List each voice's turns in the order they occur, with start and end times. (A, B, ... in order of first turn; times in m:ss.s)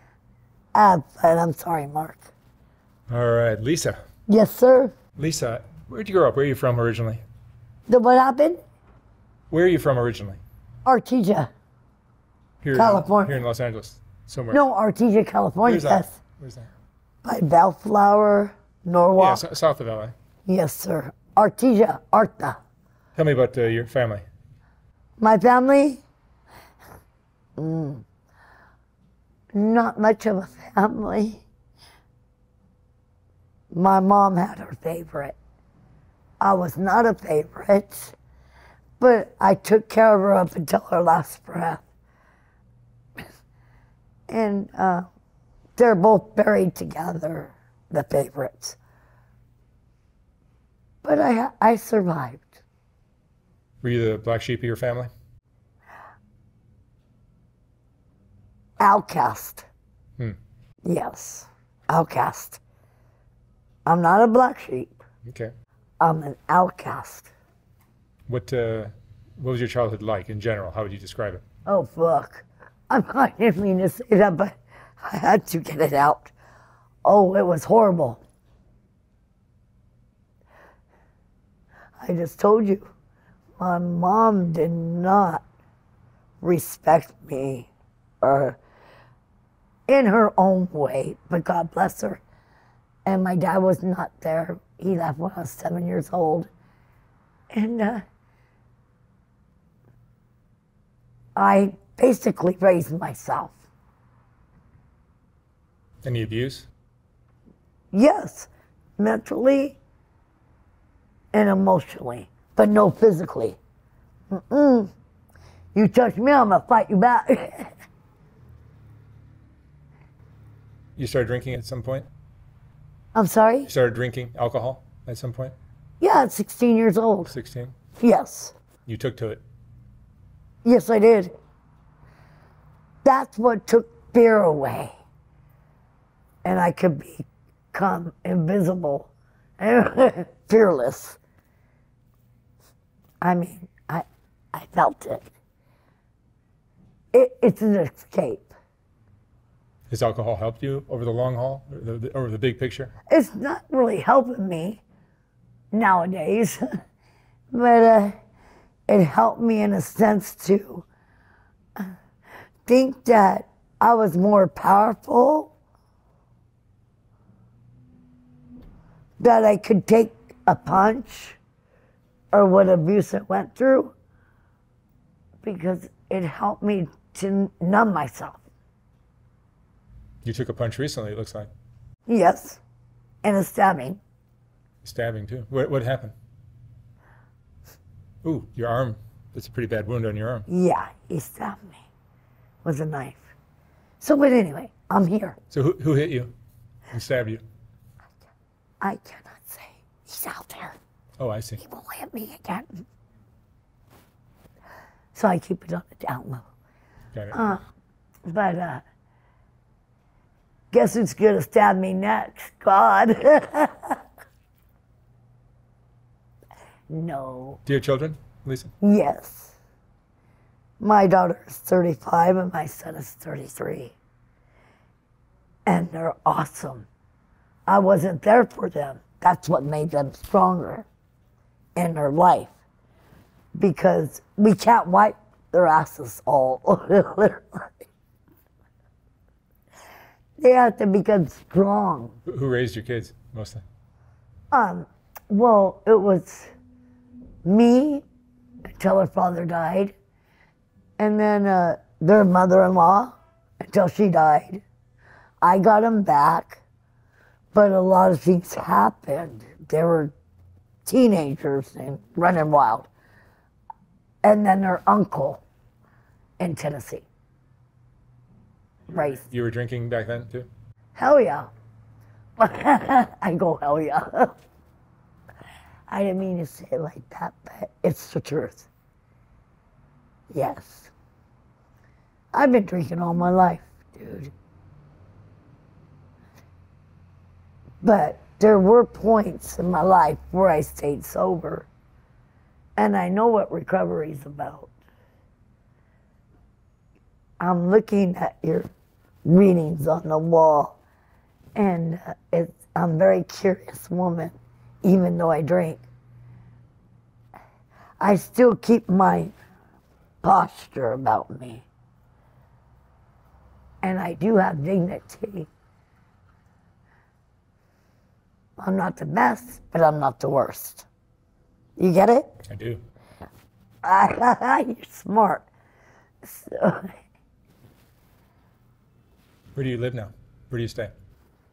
0:00.7-0:02.3 A
0:03.1-0:04.0 B
0:04.3-0:04.9 A
0:05.2-0:07.2 B
0:07.9-0:08.6 A
0:09.5-0:10.4 B
0:10.8-0:11.5 A
0:12.6-0:14.6 B
0:12.7-0:13.4 A
0:14.5-0:16.2 A
0:15.6-0:16.7 B
0:17.2-0:19.4 A
0:19.2-0:20.1 B
0:20.5-0:22.6 A
0:23.2-0:24.2 B
0:25.2-0:26.0 A
0:27.6-0:28.0 A
0:29.5-0:31.4 A
0:33.7-0:35.4 A
0:36.4-0:38.2 A
0:39.0-0:41.8 A
0:44.3-0:45.1 A
0:45.8-0:48.8 A
0:51.0-0:52.6 A
0:53.8-0:55.1 B
0:58.8-0:59.7 A
1:00.8-1:02.6 A
1:03.9-1:05.0 A
1:05.2-1:05.5 B
1:06.0-1:07.3 A
1:08.3-1:11.4 B
1:11.7-1:16.3 A
1:17.0-1:18.2 A
1:22.0-1:22.9 A
1:23.6-1:25.4 A
1:26.4-1:27.7 A
1:28.2-1:28.6 A
1:29.9-1:32.2 A
1:33.1-1:36.5 A
1:37.5-1:38.0 A
1:41.4-1:43.6 A
1:46.0-1:46.7 B
1:47.9-1:49.8 A
1:51.3-1:53.6 A
1:54.3-1:54.9 A
1:55.8-1:57.7 A
2:01.0-2:02.1 B
2:03.1-2:03.7 A
2:03.7-2:05.6 B
2:06.0-2:07.3 A
2:07.3-2:07.7 B
2:08.0-2:08.6 A
2:08.9-2:09.4 B
2:10.6-2:11.3 A
2:13.0-2:14.9 A
2:16.4-2:21.2 A
2:23.2-2:25.3 A
2:27.1-2:28.5 A
2:29.9-2:32.9 B
2:33.1-2:34.8 A
2:35.7-2:36.7 A
2:37.5-2:38.2 A
2:38.9-2:40.9 A
2:42.7-2:45.5 A
2:49.2-2:51.4 A
2:52.3-2:53.9 A
2:55.4-2:58.4 A
3:00.2-3:01.5 B
3:02.1-3:02.6 A
3:03.2-3:04.0 A
3:04.8-3:06.1 B
3:08.2-3:10.5 B
3:10.5-3:11.8 A
3:12.6-3:13.4 A
3:14.0-3:15.4 A
3:15.5-3:16.3 B
3:16.9-3:17.4 B
3:18.8-3:20.8 A
3:21.2-3:21.6 B
3:21.6-3:22.8 A
3:25.1-3:26.5 A
3:27.3-3:27.6 A
3:28.3-3:28.8 A
3:30.7-3:34.0 A
3:36.9-3:37.6 A
3:37.7-3:38.7 B
3:38.8-3:39.6 A
3:40.8-3:44.0 A
3:45.7-3:46.9 A
3:47.7-3:50.9 A
3:51.8-3:52.5 A
3:53.6-3:57.8 A
4:00.4-4:02.2 A
4:02.3-4:03.6 B
4:04.5-4:06.5 A
4:07.4-4:08.0 A
4:08.7-4:10.0 A
4:11.0-4:14.6 A
4:15.4-4:16.6 A
4:17.5-4:20.1 A
4:20.8-4:22.9 A
4:24.2-4:25.4 A
4:26.4-4:27.1 A
4:28.9-4:29.2 A
4:29.0-4:30.5 B
4:31.0-4:31.5 A
4:32.4-4:34.4 A
4:35.9-4:38.7 A
4:40.3-4:40.9 A
4:42.3-4:44.3 A
4:47.8-4:51.7 A
4:52.8-4:54.7 A
4:57.4-4:58.7 A
4:59.2-5:00.8 A
5:01.6-5:05.8 A
5:08.0-5:09.3 A
5:10.2-5:11.7 A
5:13.8-5:15.5 A
5:18.6-5:20.9 A
5:21.8-5:22.3 A
5:22.5-5:22.8 B
5:23.8-5:25.5 A
5:26.2-5:27.0 A
5:29.6-5:30.9 B